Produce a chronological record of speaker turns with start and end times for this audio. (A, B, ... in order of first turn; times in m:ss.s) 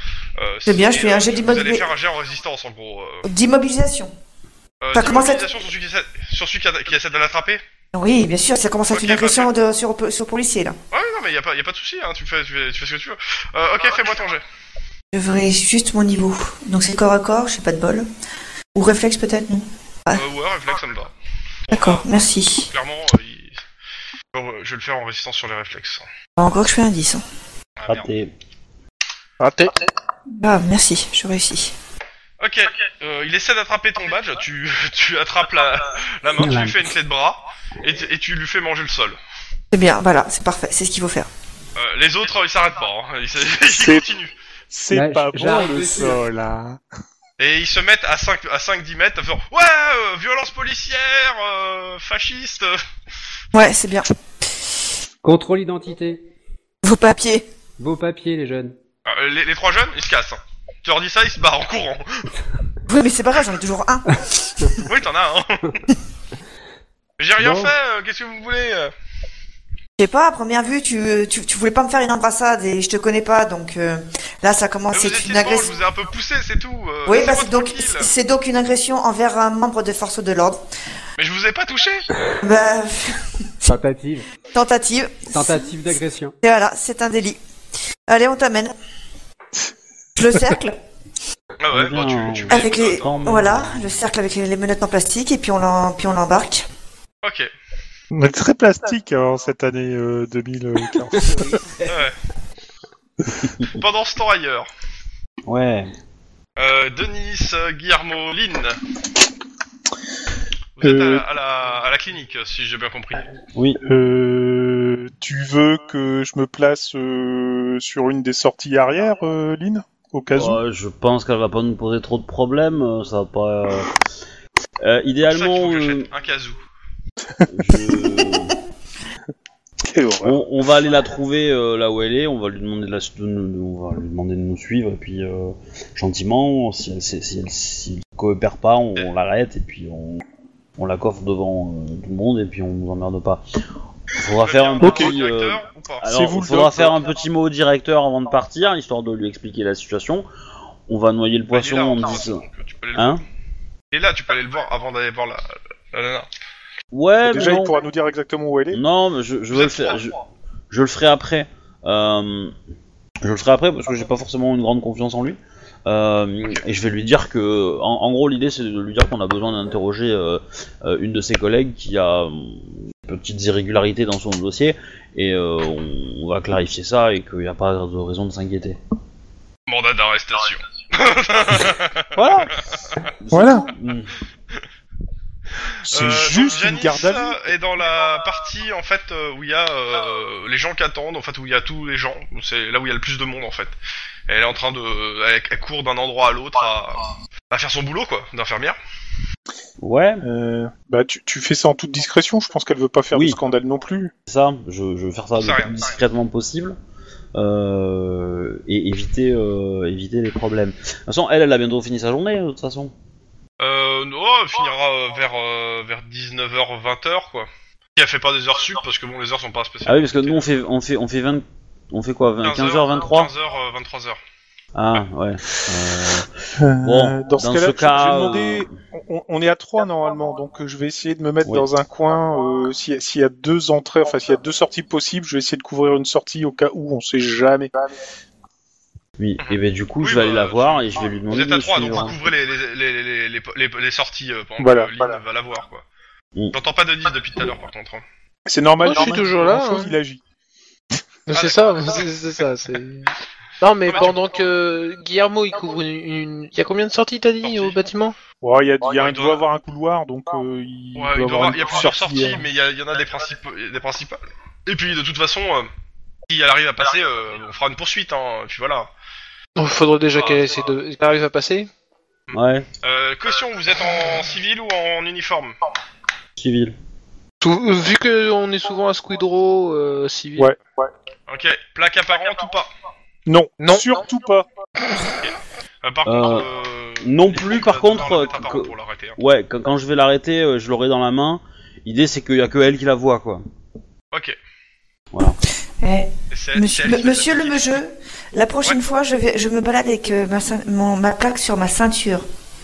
0:00.4-0:03.3 A
0:00.6-0:01.8 B
0:03.2-0:04.1 B
0:04.8-0:07.6 A
0:04.9-0:05.4 B
0:07.9-0:10.8 B
0:08.9-0:09.5 A
0:10.9-0:14.4 A
0:15.1-0:18.1 B
0:18.7-0:20.2 B
0:20.1-0:21.1 A
0:21.7-0:22.1 A
0:21.7-0:22.7 B
0:22.7-0:23.6 A
0:24.3-0:26.1 A
0:26.4-0:27.2 B
0:27.8-0:28.1 A
0:27.9-0:28.3 C
0:29.4-0:29.7 D
0:30.4-0:31.7 B
0:32.4-0:39.2 A
0:36.4-0:36.9 E
0:39.7-0:41.3 B
0:41.8-0:44.3 A
0:43.7-0:44.0 F
0:44.7-0:46.8 F
0:44.9-0:46.2 E
0:47.4-0:52.8 A
0:53.5-0:54.1 B
0:55.2-0:56.2 E
0:56.8-0:57.4 B
0:57.8-0:58.7 E
0:59.0-1:02.3 A
1:02.9-1:04.2 B
1:04.8-1:05.8 A
1:07.2-1:08.9 A
1:07.4-1:07.7 E
1:10.0-1:15.7 B
1:14.9-1:18.1 A
1:17.0-1:20.6 B
1:21.2-1:22.1 A
1:22.4-1:23.7 B
1:23.6-1:24.2 E
1:24.5-1:25.7 B
1:25.3-1:26.3 E
1:26.4-1:27.4 B
1:28.1-1:28.7 B
1:30.2-1:30.8 B
1:31.6-1:33.2 A
1:31.7-1:33.9 C
1:32.5-1:36.6 B
1:37.2-1:37.5 A
1:38.1-1:41.5 F
1:41.8-1:42.1 A
1:43.4-1:43.7 C
1:43.7-1:44.7 A
1:45.4-1:45.9 C
1:46.6-1:48.8 A
1:50.8-1:53.2 A
1:50.8-1:51.2 F
1:53.6-1:53.8 C
1:53.8-2:00.6 F
2:00.3-2:03.9 C
2:04.8-2:06.1 C
2:05.2-2:06.6 A
2:07.5-2:08.5 C
2:09.9-2:10.4 F
2:10.2-2:20.2 C
2:20.8-2:23.4 C
2:24.2-2:30.2 C
2:24.4-2:26.0 A
2:24.8-2:25.1 F
2:26.1-2:27.0 F
2:30.9-2:32.4 C
2:31.5-2:33.2 A
2:33.0-2:33.2 C
2:33.9-2:36.3 A
2:36.9-2:37.8 C
2:37.2-2:38.8 F
2:38.7-2:40.2 C
2:39.5-2:40.0 A
2:40.7-2:42.5 C
2:43.2-2:58.8 C
2:59.7-3:02.5 A
3:02.2-3:02.6 C
3:03.2-3:04.1 C
3:03.3-3:03.7 F
3:05.8-3:07.4 F
3:05.9-3:13.7 A
3:14.3-3:18.8 A
3:19.8-3:20.2 C
3:20.2-3:24.1 F
3:23.1-3:23.4 C
3:24.3-3:26.8 C
3:25.4-3:25.8 A
3:27.3-3:32.9 C
3:33.6-3:40.5 A
3:39.8-3:43.3 C
3:42.4-3:44.2 A
3:44.7-3:48.7 C
3:46.6-3:57.7 F
3:59.2-4:02.1 C
3:59.4-4:05.8 A
4:04.6-4:05.2 F
4:06.5-4:08.0 A
4:08.5-4:10.2 F
4:08.8-4:10.0 D
4:11.3-4:13.1 D
4:11.3-4:12.1 A
4:13.6-4:18.1 D
4:13.9-4:14.1 A
4:17.4-4:17.8 A
4:18.4-4:22.4 F
4:19.0-4:19.4 A
4:20.9-4:25.7 A
4:26.3-4:28.9 A
4:29.6-4:31.7 D
4:30.2-4:30.5 A
4:32.3-4:35.6 A
4:32.3-4:32.7 C
4:36.4-4:36.7 C
4:37.4-4:40.5 D
4:40.4-4:40.9 F
4:41.3-4:42.7 A
4:43.3-4:44.5 F
4:43.6-4:43.9 D
4:45.2-4:49.2 A
4:46.0-4:46.4 C
4:47.0-4:53.4 C
4:55.1-4:55.4 C
4:55.8-5:02.2 B
4:56.3-4:57.8 A